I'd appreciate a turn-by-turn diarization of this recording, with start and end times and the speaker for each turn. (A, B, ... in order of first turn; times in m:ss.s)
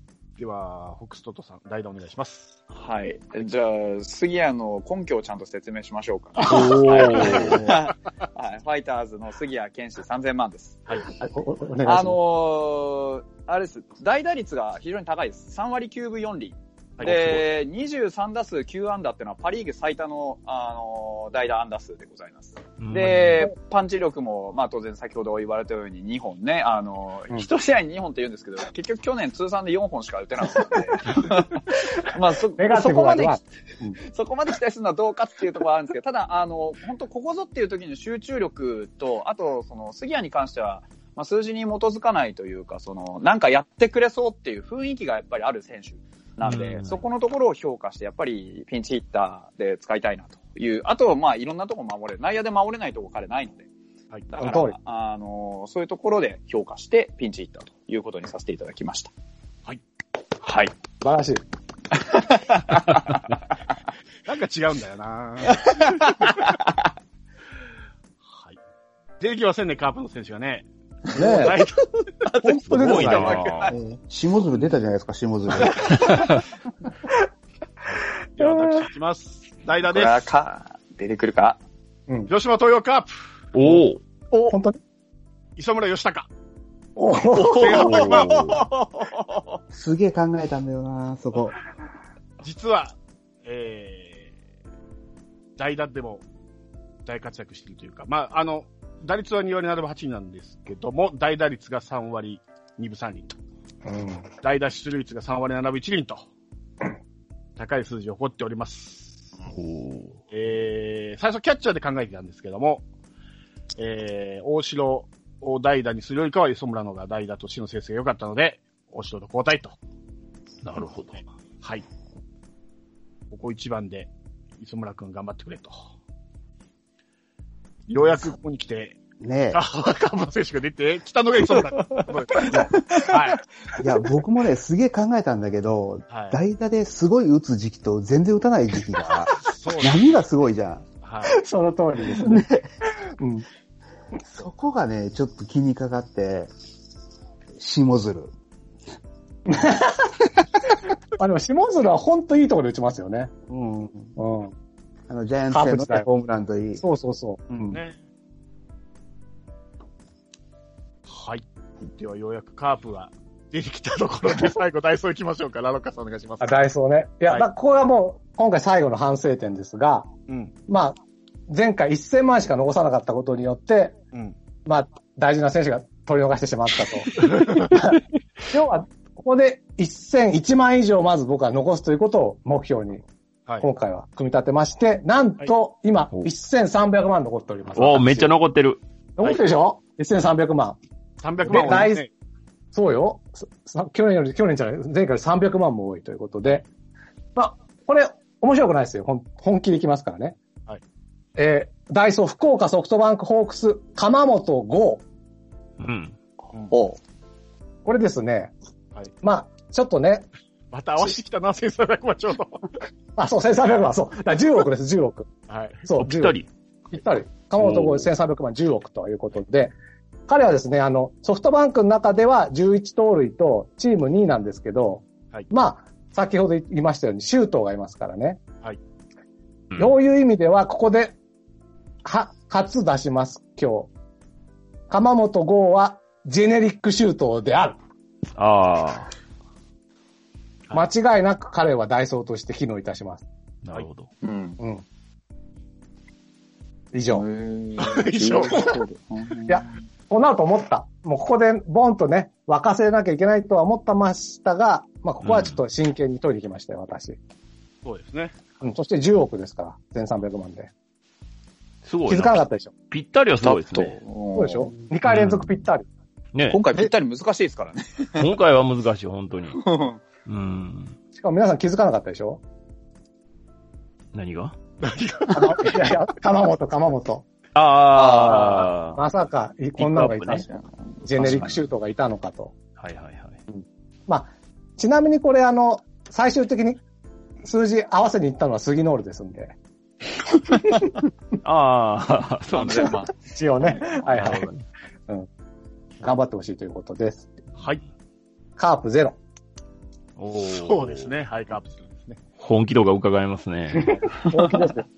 0:00.4-0:02.6 A
0:02.7-0:11.0 B
0:06.4-0:07.7 C
0:06.4-0:07.9 A
0:11.2-0:12.2 D
0:11.8-0:33.4 B
0:17.0-0:17.4 A
0:17.0-0:17.3 C
0:22.8-0:23.5 C
0:32.6-0:34.0 D
0:34.0-0:53.7 B
0:46.4-0:47.0 C
0:54.3-0:59.1 B
0:54.3-0:54.8 D
1:00.4-1:00.7 B
1:01.0-1:01.4 D
1:01.9-1:03.2 B
1:04.2-1:06.1 A
1:05.5-1:06.3 B
1:08.2-1:08.6 A
1:09.2-1:11.9 A
1:11.1-1:11.6 D
1:12.2-1:13.7 B
1:12.4-1:13.4 D
1:12.7-1:13.7 C
1:13.7-1:16.1 E
1:17.9-1:20.3 A
1:18.4-1:18.8 D
1:19.8-1:21.6 B
1:22.3-1:23.8 A
1:23.5-1:24.0 C
1:24.3-1:24.8 D
1:25.6-1:26.3 A
1:27.0-1:28.6 D
1:27.3-1:29.6 B
1:27.4-1:28.6 A
1:29.7-1:31.6 E
1:32.4-1:34.3 A
1:35.6-1:36.2 A
1:37.0-1:43.4 A
1:43.8-1:44.3 D
1:44.4-1:46.3 A
1:47.6-1:49.3 A
1:49.5-1:50.2 C
1:50.3-1:52.8 A
1:53.8-1:59.8 A
2:00.6-2:01.2 C
2:01.6-2:01.8 A
2:03.3-2:05.8 A
2:07.9-2:09.0 A
2:09.2-2:09.6 E
2:09.5-2:13.4 A
2:11.6-2:13.1 B
2:13.8-2:20.9 E
2:16.1-2:16.4 A
2:19.4-2:20.0 A
2:21.0-2:21.3 A
2:21.3-2:22.4 D
2:22.2-2:22.7 E
2:23.2-2:23.4 D
2:24.2-2:26.5 E
2:27.6-2:28.3 E
2:29.5-2:30.1 D
2:31.2-2:33.3 D
2:33.5-2:34.2 E
2:34.2-2:34.5 D
2:35.1-2:36.8 E
2:35.5-2:36.0 D
2:36.8-2:37.8 D
2:37.7-2:38.0 A
2:41.0-2:46.6 A
2:46.4-2:50.1 D
2:50.3-2:50.5 A
2:50.7-2:51.0 D
2:51.5-2:54.0 D
2:54.6-3:03.0 D
2:57.1-2:57.7 A
3:03.6-3:08.3 D
3:07.7-3:08.8 C
3:09.2-3:10.8 D
3:11.2-3:12.1 A
3:11.4-3:12.0 D
3:12.7-3:16.6 D
3:17.4-3:20.4 D
3:21.4-3:25.0 D
3:25.8-3:26.2 C
3:26.7-3:27.0 B
3:27.8-3:28.5 D
3:29.2-3:30.3 D
3:30.7-3:32.7 A
3:33.2-3:35.3 D
3:35.5-3:35.8 A
3:35.8-3:36.4 D
3:36.0-3:36.5 C
3:36.9-3:39.7 D
3:37.6-3:38.0 C
3:40.3-3:48.4 D
3:49.8-3:51.2 D
3:52.0-3:53.9 D
3:54.9-3:57.8 D
3:58.4-3:59.1 C
4:00.7-4:03.2 D
4:03.6-4:04.1 C
4:04.2-4:04.6 B
4:04.6-4:04.8 D
4:06.9-4:07.2 D
4:07.1-4:09.8 B
4:07.8-4:08.7 A
4:09.5-4:17.2 D
4:15.2-4:15.6 C
4:17.8-4:18.4 A
4:18.6-4:20.7 D
4:21.8-4:24.0 C
4:22.1-4:22.7 D
4:23.4-4:24.7 B
4:24.3-4:25.8 D
4:25.0-4:25.6 C
4:26.3-4:26.6 C
4:26.5-4:28.3 B
4:28.2-4:29.6 C
4:29.5-4:30.0 B
4:30.2-4:31.0 C
4:31.1-4:32.4 D
4:34.1-4:34.6 C
4:34.8-4:35.9 A
4:35.3-4:37.2 D
4:37.5-4:39.0 C
4:37.9-4:38.8 B
4:39.0-4:40.5 D
4:39.8-4:40.4 C
4:40.4-4:41.6 B
4:41.0-4:42.5 D
4:41.2-4:41.6 C
4:42.8-4:43.4 C
4:44.1-4:46.8 D
4:47.4-4:49.5 D
4:50.6-4:51.0 D
4:51.4-4:53.0 C
4:52.5-4:54.4 B
4:53.3-4:54.5 D
4:54.1-4:54.6 C
4:56.0-4:57.4 D
4:58.6-4:59.2 D
5:00.2-5:01.1 C
5:00.4-5:02.2 A
5:02.4-5:03.9 C
5:03.8-5:04.9 D